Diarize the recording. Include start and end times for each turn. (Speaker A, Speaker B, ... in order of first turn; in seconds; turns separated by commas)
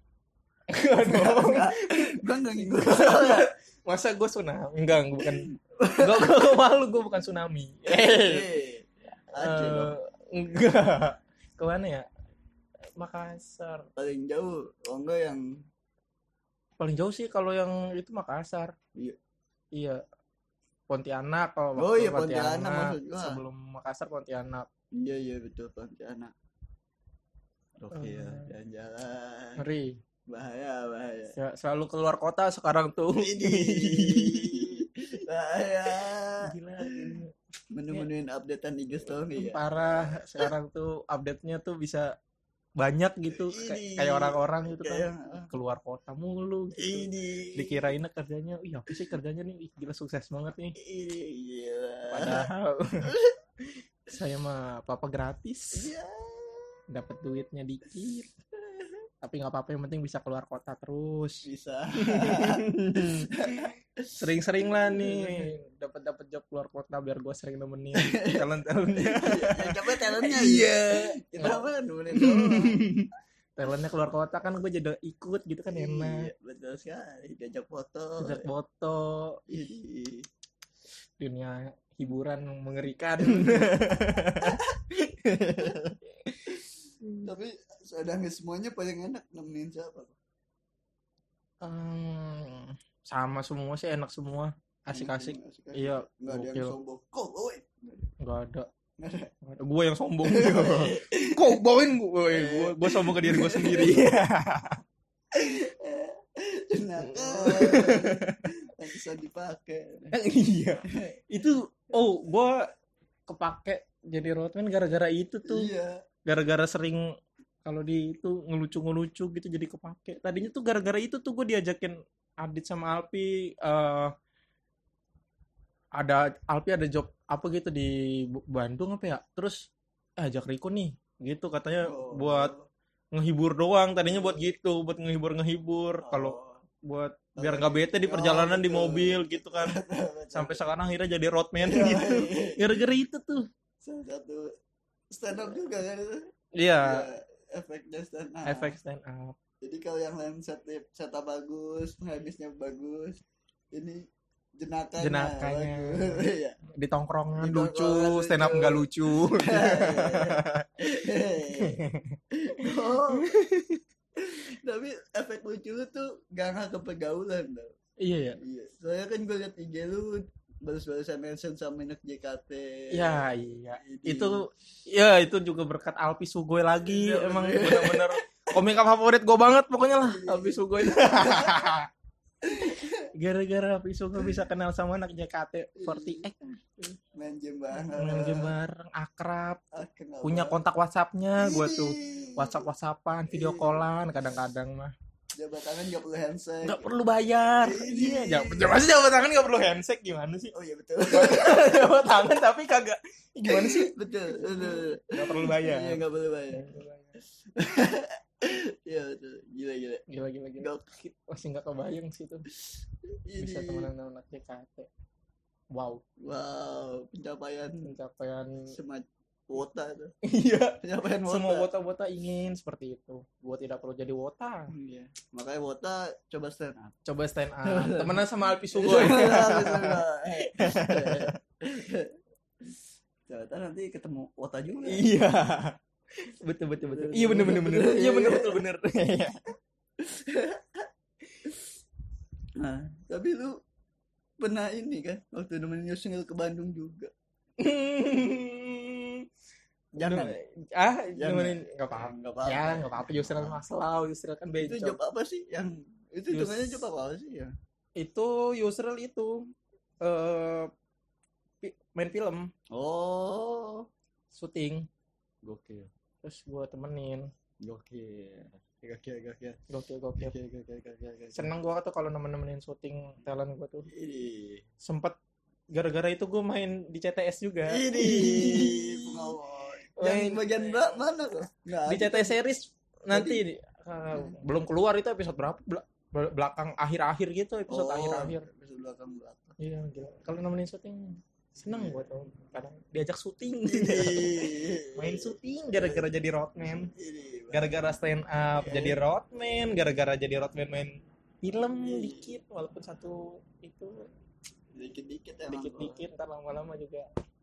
Speaker A: 0.7-8.4, Speaker B: 1.0-3.5, Speaker B: 5.2-6.4, Speaker B: 7.9-9.9, Speaker A: 9.2-12.1, Speaker A: 13.0-13.9, Speaker B: 13.9-15.4, Speaker A: 16.8-18.7, Speaker A: 19.7-20.0, Speaker A: 20.9-24.7, Speaker B: 21.8-23.4, Speaker B: 25.0-26.3, Speaker B: 27.8-29.6, Speaker A: 27.9-28.5, Speaker A: 29.6-30.0, Speaker B: 30.3-31.3, Speaker A: 31.4-34.8, Speaker B: 33.1-37.2, Speaker A: 36.4-37.3, Speaker B: 37.7-40.5, Speaker A: 39.3-42.1, Speaker A: 42.8-50.8, Speaker B: 43.3-45.5, Speaker B: 46.8-47.9, Speaker B: 50.8-52.5, Speaker A: 52.1-53.1, Speaker B: 53.1-53.4, Speaker A: 53.8-55.9, Speaker B: 55.7-56.8, Speaker A: 56.9-58.3, Speaker B: 58.6-59.0, Speaker A: 59.2-63.6, Speaker B: 61.4-65.5, Speaker A: 64.2-76.3, Speaker B: 68.0-72.9, Speaker B: 75.7-78.5, Speaker A: 78.2-79.4, Speaker B: 79.5-80.3, Speaker A: 81.2-87.3, Speaker B: 83.2-85.0, Speaker B: 85.5-85.8, Speaker B: 86.5-90.1, Speaker A: 91.6-96.7, Speaker B: 94.9-98.1, Speaker A: 98.2-98.7, Speaker B: 99.0-99.3, Speaker A: 99.4-104.8, Speaker B: 100.2-101.6, Speaker B: 102.3-104.0, Speaker B: 105.3-110.1, Speaker A: 107.0-108.4, Speaker A: 110.1-112.6, Speaker A: 113.3-115.7, Speaker B: 115.4-116.0, Speaker A: 116.2-117.1, Speaker A: 117.6-124.1, Speaker A: 126.0-132.5, Speaker B: 131.8-132.6, Speaker A: 133.1-139.8, Speaker B: 134.1-134.5, Speaker B: 136.0-136.6, Speaker B: 137.4-140.6, Speaker A: 140.3-143.5, Speaker B: 141.6-142.8, Speaker B: 143.8-144.5, Speaker B: 145.1-146.3, Speaker A: 146.6-147.1, Speaker B: 146.8-148.8, Speaker A: 148.4-149.3, Speaker B: 149.6-154.0, Speaker B: 154.6-156.6, Speaker A: 155.0-160.7, Speaker B: 157.3-161.8, Speaker A: 161.5-163.8, Speaker B: 162.3-163.3, Speaker B: 164.2-167.7, Speaker A: 168.0-168.4, Speaker B: 168.4-174.4, Speaker A: 172.9-181.9, Speaker B: 176.8-178.2, Speaker B: 179.9-181.7, Speaker B: 182.4-183.1, Speaker A: 183.1-186.4, Speaker B: 185.8-188.5, Speaker A: 187.9-189.6, Speaker B: 189.7-190.6, Speaker A: 190.2-194.9, Speaker B: 191.4-192.7, Speaker B: 193.3-193.9, Speaker B: 195.3-196.9, Speaker A: 196.6-206.0, Speaker B: 197.6-198.8, Speaker B: 200.5-201.8, Speaker B: 203.5-206.7, Speaker A: 206.5-207.2, Speaker B: 207.4-210.0, Speaker A: 210.1-212.4, Speaker B: 210.6-210.9, Speaker B: 213.2-213.9, Speaker A: 213.4-214.9, Speaker A: 215.7-216.0, Speaker B: 216.2-217.9, Speaker A: 217.8-218.7, Speaker B: 218.7-220.1, Speaker A: 220.2-224.7, Speaker B: 220.8-221.7, Speaker B: 224.7-226.9, Speaker A: 227.0-231.3, Speaker B: 227.6-235.1, Speaker A: 234.8-239.4, Speaker B: 236.9-238.6, Speaker B: 240.0-240.9, Speaker B: 242.6-243.6, Speaker B: 244.4-247.1, Speaker A: 247.6-249.3, Speaker B: 249.9-250.4, Speaker A: 250.0-255.0, Speaker B: 251.2-253.6, Speaker B: 254.6-257.5, Speaker A: 256.3-256.8, Speaker A: 258.0-259.5, Speaker A: 260.0-260.7, Speaker A: 261.6-262.5, Speaker B: 262.7-263.9, Speaker A: 264.3-264.9, Speaker B: 265.4-265.9, Speaker A: 266.2-267.3, Speaker B: 267.6-269.6, Speaker A: 269.7-270.3, Speaker B: 270.2-271.5, Speaker A: 271.3-273.9, Speaker B: 273.9-274.6, Speaker A: 274.8-275.1, Speaker A: 275.7-279.3, Speaker B: 277.7-282.4, Speaker A: 280.0-281.0, Speaker A: 281.9-288.5, Speaker B: 283.1-283.4, Speaker B: 284.1-284.4, Speaker B: 287.7-289.6, Speaker A: 289.6-296.9, Speaker B: 291.6-292.3, Speaker B: 293.7-296.1, Speaker B: 296.9-297.8, Speaker A: 297.5-304.1, Speaker B: 298.6-299.0, Speaker B: 301.8-302.3, Speaker B: 304.7-306.1, Speaker A: 305.5-307.1